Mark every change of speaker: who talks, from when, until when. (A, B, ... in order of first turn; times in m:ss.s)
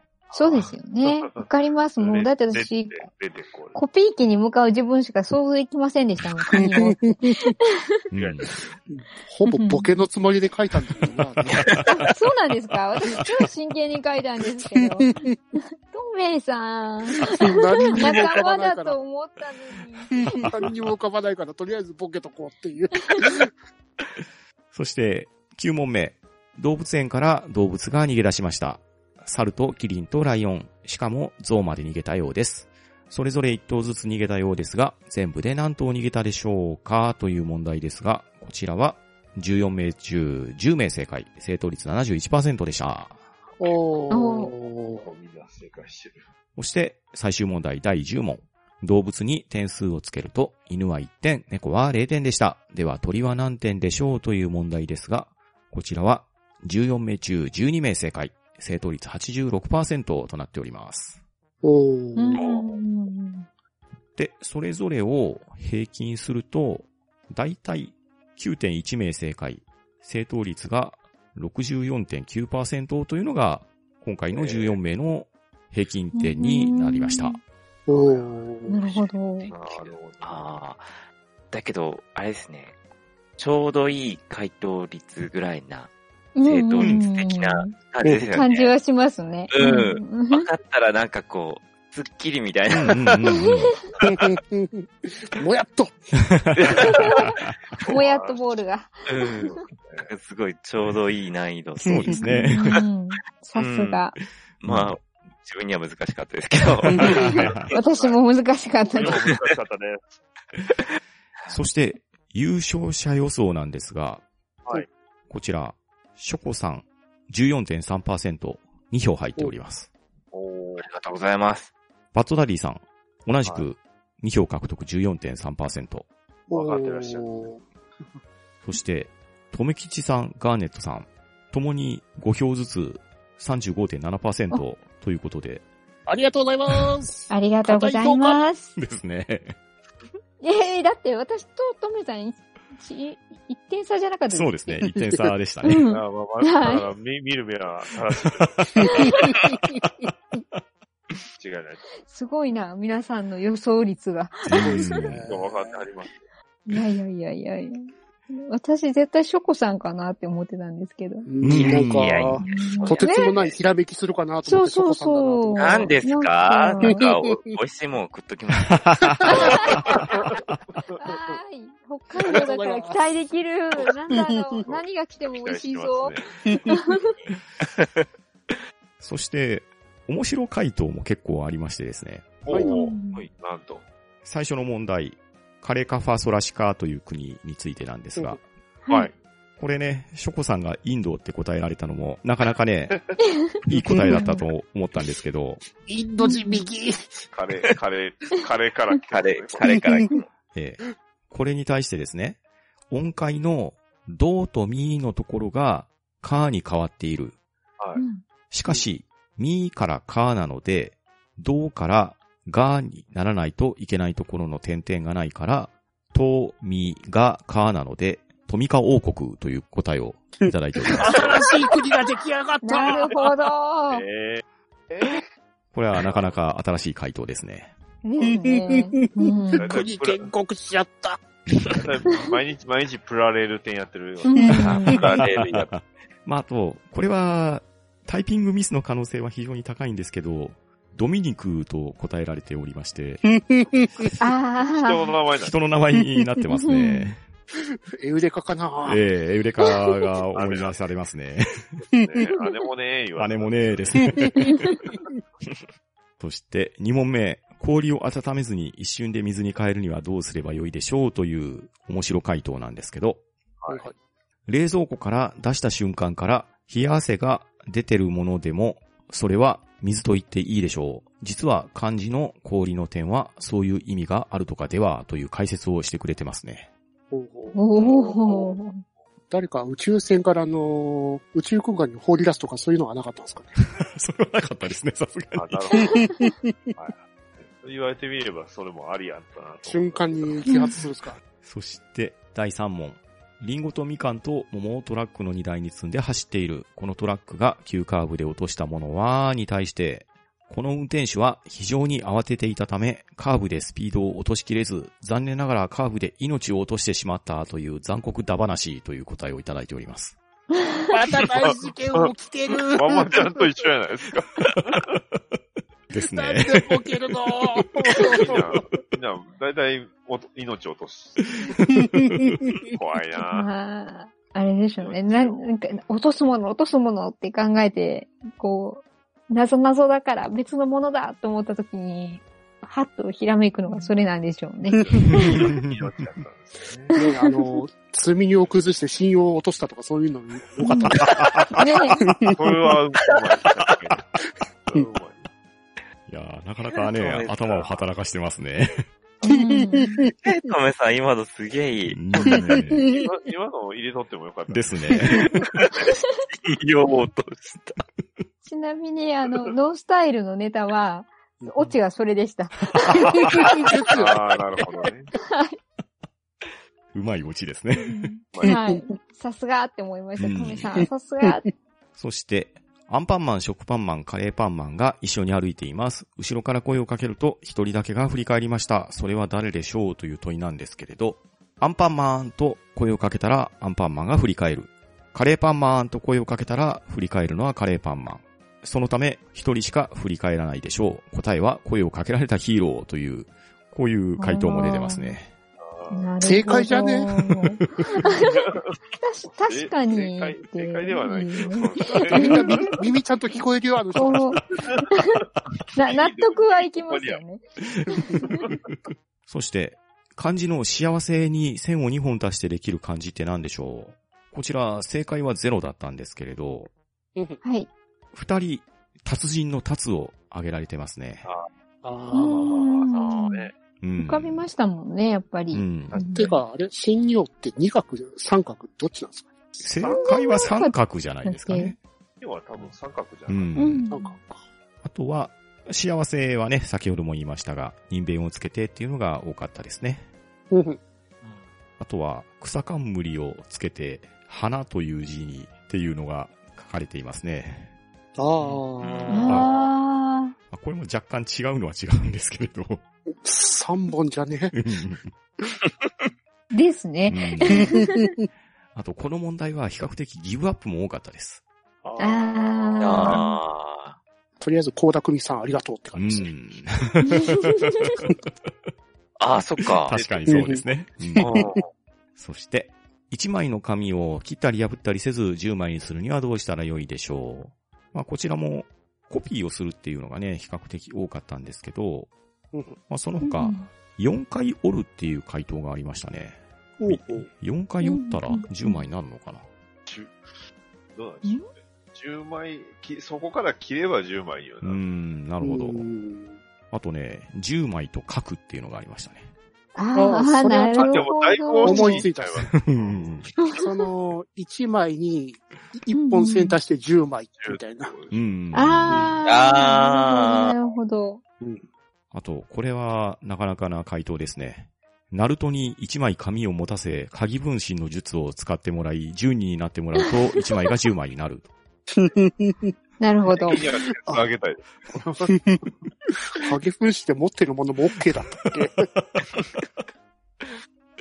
0:00.3-0:01.4 A
0:00.3-0:03.0 B
0:02.0-0:03.8 A
0:03.7-0:07.7 B
0:06.6-0:07.5 C
0:08.1-0:08.5 D
0:08.1-0:08.6 A
0:08.9-0:11.7 C
0:09.5-0:09.9 B
0:11.6-0:11.9 D
0:11.8-0:20.4 B
0:15.0-0:15.3 C
0:17.2-0:19.0 C
0:20.3-0:23.5 C
0:20.4-0:20.7 D
0:24.7-0:43.2 D
0:43.6-0:45.0 C
0:44.1-0:44.5 B
0:44.9-0:46.2 A
0:46.6-1:01.2 D
1:01.6-1:02.4 C
1:02.2-1:03.5 B
1:02.3-1:02.6 E
1:04.2-1:17.4 D
1:14.3-1:14.8 A
1:16.1-1:17.4 B
1:17.9-1:18.8 C
1:17.9-1:20.5 A
1:18.7-1:19.5 B
1:19.5-1:20.9 E
1:21.5-1:22.7 E
1:23.4-1:25.9 E
1:26.3-1:27.7 B
1:26.4-1:28.7 E
1:26.8-1:27.0 D
1:28.0-1:28.3 C
1:28.3-1:30.4 B
1:29.5-1:33.3 E
1:32.7-1:33.7 D
1:34.0-1:36.1 C
1:36.3-1:36.7 D
1:36.6-1:37.0 E
1:36.8-1:39.6 B
1:37.8-1:38.5 A
1:39.1-1:42.2 E
1:39.4-1:40.1 A
1:41.8-1:42.8 D
1:42.1-1:44.2 B
1:43.6-1:44.0 E
1:44.6-1:47.7 E
1:44.6-1:45.0 D
1:46.9-1:47.7 D
1:47.6-1:48.2 A
1:47.7-1:49.3 B
1:48.9-1:50.1 A
1:51.5-1:54.2 D
1:55.3-1:59.9 D
2:00.3-2:00.8 A
2:00.8-2:01.7 E
2:02.1-2:06.0 D
2:06.5-2:07.6 C
2:06.5-2:07.5 A
2:08.6-2:15.6 D
2:16.1-2:18.4 C
2:17.3-2:18.7 B
2:18.8-2:19.5 D
2:20.4-2:24.9 B
2:24.3-2:25.8 D
2:25.6-2:26.8 B
2:25.9-2:28.9 A
2:29.0-2:29.4 B
2:31.4-2:31.8 A
2:32.0-2:35.0 B
2:34.5-2:35.2 D
2:34.6-2:35.9 C
2:35.2-2:36.2 A
2:36.7-2:41.3 B
2:41.3-2:45.9 C
2:41.4-2:42.4 D
2:41.5-2:43.6 E
2:42.4-2:43.3 B
2:44.4-2:47.0 B
2:45.5-2:49.8 E
2:46.8-2:47.5 C
2:48.7-2:49.5 D
2:49.2-2:50.0 C
2:49.3-2:49.8 B
2:49.6-2:50.3 A
2:50.9-2:56.2 B
2:52.2-2:53.2 C
2:54.1-2:54.6 C
2:54.6-2:56.4 A
2:56.7-2:57.1 B
2:57.6-2:58.0 E
2:59.0-3:02.4 D
3:02.4-3:03.8 A
3:02.5-3:02.7 C
3:02.6-3:03.2 B
3:04.2-3:08.4 D
3:08.8-3:09.1 B
3:09.6-3:13.1 D
3:13.6-3:15.6 D
3:13.8-3:14.1 C
3:14.1-3:14.4 B
3:15.8-3:17.3 C
3:16.2-3:16.6 B
3:17.3-3:19.6 A
3:19.1-3:20.2 E
3:19.8-3:20.0 C
3:20.5-3:22.4 D
3:22.9-3:27.4 D
3:27.8-3:28.0 A
3:28.0-3:28.2 B
3:28.5-3:41.4 D
3:40.9-3:43.1 C
3:41.1-3:41.5 A
3:42.6-3:44.0 B
3:43.9-3:45.2 A
3:45.7-3:47.7 D
3:46.0-3:46.3 A
3:48.0-3:49.6 B
3:48.2-3:51.8 C
3:49.6-3:50.3 A
3:51.7-3:55.3 A
3:54.2-3:55.0 B
3:54.3-3:54.6 C
3:54.5-3:55.7 E
3:55.2-4:03.2 D
4:03.4-4:04.1 C
4:04.2-4:05.1 B
4:04.6-4:05.5 A
4:05.4-4:07.2 D
4:06.6-4:07.1 B
4:08.0-4:09.0 C
4:08.8-4:11.8 D
4:10.3-4:10.7 A
4:11.9-4:14.1 A
4:13.2-4:14.7 D
4:16.2-4:23.2 D
4:23.6-4:23.9 A
4:23.7-4:23.9 C
4:24.5-4:36.7 D
4:37.1-4:37.6 C
4:37.5-4:38.8 B
4:37.7-4:38.5 A
4:39.3-4:43.5 C
4:43.8-4:45.7 D
4:45.3-4:46.0 A
4:45.8-4:46.3 B
4:45.9-4:46.7 C
4:46.7-4:50.6 A
4:49.6-4:51.2 C
4:50.5-4:50.7 B
4:51.4-5:10.2 D
5:10.8-5:13.5 C
5:11.4-5:12.1 A
5:12.7-5:15.0 A
5:15.9-5:16.9 D
5:16.0-5:18.4 C
5:18.0-5:21.4 A
5:21.4-5:22.3 D
5:22.7-5:23.5 A
5:23.3-5:35.5 B
5:24.8-5:25.6 A
5:35.1-5:37.0 A
5:35.2-5:35.7 D
5:36.9-5:37.6 B
5:36.9-5:41.5 C
5:40.6-5:41.0 B
5:41.2-5:42.1 D
5:41.6-5:42.0 B
5:42.0-5:42.4 C
5:42.3-5:44.0 A
5:44.6-5:45.3 A
5:46.1-5:48.8 D
5:46.8-5:47.3 E
5:47.4-5:47.7 A
5:49.2-5:50.1 C
5:49.3-5:50.1 B
5:50.2-5:52.0 E
5:51.9-5:52.8 D
5:52.2-5:52.9 C
5:52.9-5:55.3 A
5:54.5-5:55.3 D
5:55.1-5:57.8 E
5:58.4-6:03.5 B
6:03.2-6:04.2 C
6:03.9-6:05.1 A
6:05.2-6:05.6 B
6:06.9-6:08.1 D
6:07.8-6:11.4 B
6:08.3-6:08.6 A
6:08.4-6:08.8 C
6:10.2-6:10.8 D
6:12.0-6:35.3 D
6:34.2-6:35.1 B
6:35.6-6:36.1 A
6:35.9-6:42.7 B
6:36.2-6:37.1 C
6:38.2-6:38.7 A
6:39.3-6:42.8 A
6:42.1-6:44.4 C
6:43.9-6:48.4 B
6:45.8-6:47.2 A
6:48.2-6:48.6 A
6:49.3-6:56.7 D
6:57.2-6:57.4 C
6:57.4-6:57.7 B
6:58.1-7:01.2 D
7:01.8-7:02.6 C
7:02.1-7:06.4 B
7:02.2-7:03.5 A
7:03.8-7:04.4 D
7:05.5-7:06.0 D
7:05.9-7:06.3 A
7:06.1-7:09.7 C
7:09.6-7:11.8 D
7:09.8-7:10.6 A
7:09.9-7:11.7 B
7:12.2-7:13.5 A
7:13.3-7:13.9 D
7:13.6-7:14.2 B
7:13.9-7:14.4 C
7:14.8-7:20.0 D
7:20.5-7:20.8 C
7:21.8-7:27.7 D
7:28.2-7:29.4 C
7:28.4-7:29.4 E
7:29.1-7:30.3 B
7:30.5-7:32.8 D
7:33.2-7:34.6 C
7:34.5-7:35.1 D
7:36.5-7:38.1 B
7:37.1-7:37.8 D
7:37.5-7:38.2 C
7:38.7-7:41.4 D
7:41.8-7:43.2 A
7:42.0-7:43.3 B
7:42.8-7:44.0 E
7:44.4-7:46.3 C
7:45.9-7:48.5 D
7:47.0-7:48.0 B
7:49.2-7:50.0 E
7:49.8-7:51.3 D
7:49.9-7:50.6 A
7:50.3-7:50.6 C
7:51.2-7:51.5 C
7:51.3-7:51.6 A
7:52.2-8:02.1 D
8:02.5-8:02.8 C
8:02.9-8:09.4 D
8:03.2-8:03.7 B
8:06.8-8:07.3 C
8:07.8-8:08.8 B
8:09.8-8:10.2 A
8:10.9-8:14.8 A
8:14.6-8:15.8 D
8:15.4-8:16.4 C
8:16.7-8:19.3 D
8:19.8-8:22.1 B
8:19.9-8:21.1 C
8:20.7-8:23.3 A
8:21.6-8:22.5 C
8:22.5-8:23.3 D
8:23.5-8:27.9 C
8:25.9-8:26.5 B
8:27.4-8:28.2 A
8:28.1-8:29.2 D
8:28.5-8:31.2 B
8:28.9-8:29.2 C
8:29.2-8:30.5 E
8:32.1-8:41.5 D
8:41.9-8:42.7 C
8:43.0-8:43.6 B
8:43.3-8:45.3 A
8:45.3-8:48.9 C